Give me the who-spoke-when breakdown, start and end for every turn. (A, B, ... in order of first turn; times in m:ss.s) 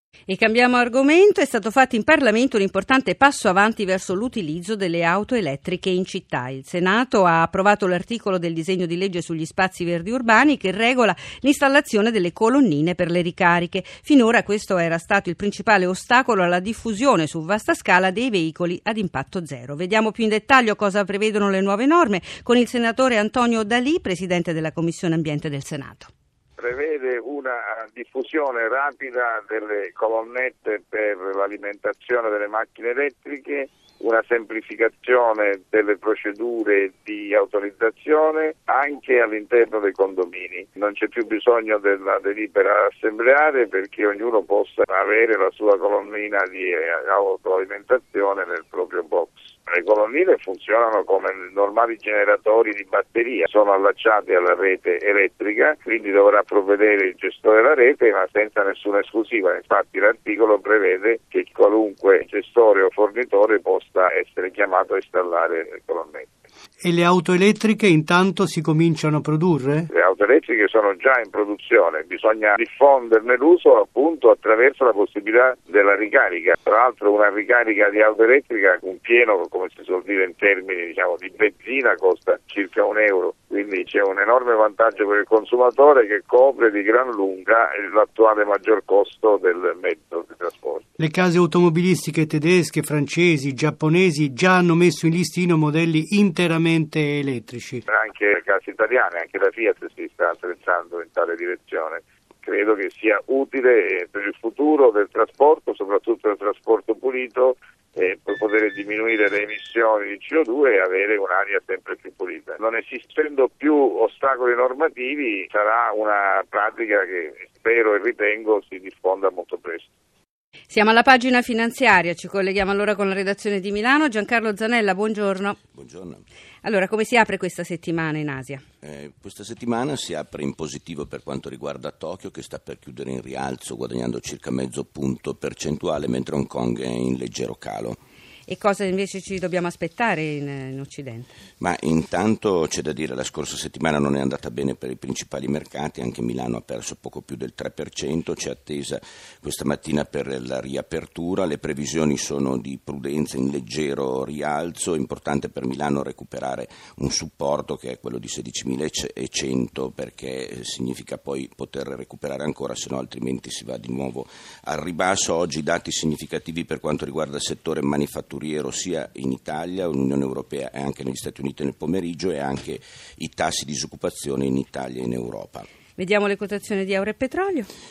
0:00.3-0:26.1 A
0:26.6-1:06.3 B
1:06.8-1:09.8 C
1:07.8-1:09.2 B
1:09.8-1:33.1 B
1:31.0-1:37.8 C
1:33.6-1:37.0 B
1:37.9-1:59.8 B
2:00.7-2:05.6 A
2:05.7-2:06.2 D
2:06.6-2:08.6 A
2:08.8-2:18.0 D
2:18.5-2:21.3 A
2:21.6-2:55.6 D
2:56.0-2:57.7 A